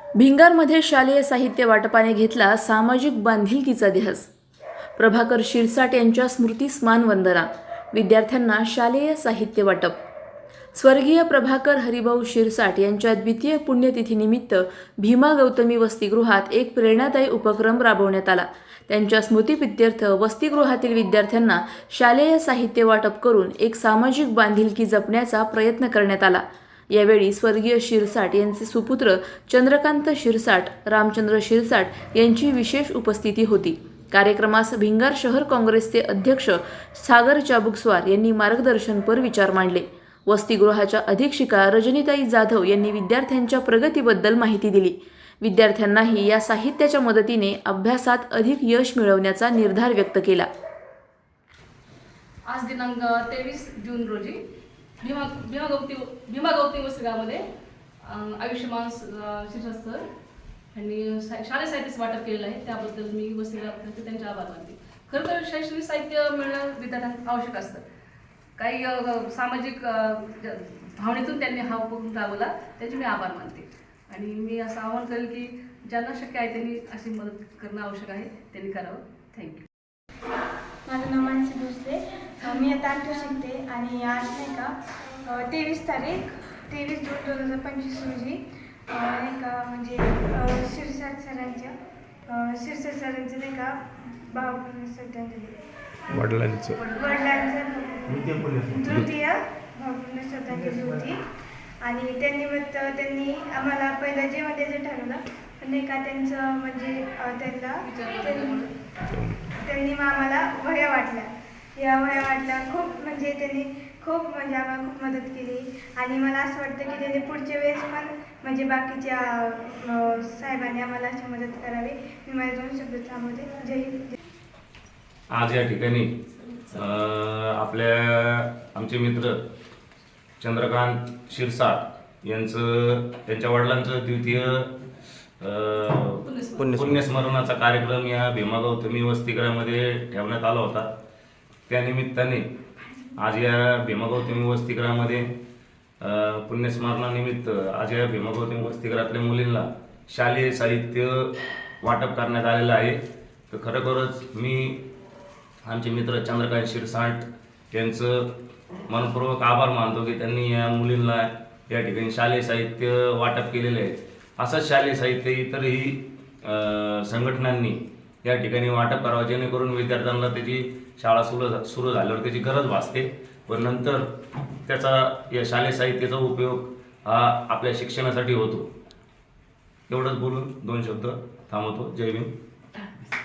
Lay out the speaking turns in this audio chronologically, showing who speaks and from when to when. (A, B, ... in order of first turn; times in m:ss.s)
0:00.2-0:04.3 A
0:05.0-0:10.0 A
0:10.7-0:50.5 A
0:52.5-0:54.3 B
0:55.0-0:57.4 B
0:58.1-1:00.0 B
1:00.7-1:07.8 B
1:08.6-1:10.6 B
1:11.2-1:15.4 B
1:15.9-1:19.6 B
1:20.8-1:24.7 C
1:25.2-1:31.7 C
1:32.3-1:35.5 C
1:36.1-1:36.8 D
1:36.8-1:41.2 C
1:38.1-1:39.1 D
1:41.8-1:48.7 C
1:49.1-1:49.5 D
1:49.6-2:04.2 C
2:05.3-2:06.2 E
2:06.7-2:09.4 E
2:10.4-2:14.7 E
2:15.4-2:20.9 E
2:21.7-2:22.5 E
2:23.2-2:25.3 E
2:26.0-2:33.0 E
2:33.5-2:34.8 E
2:35.6-2:38.3 E
2:38.9-2:54.1 E
2:54.6-2:58.7 E
2:59.9-3:02.3 E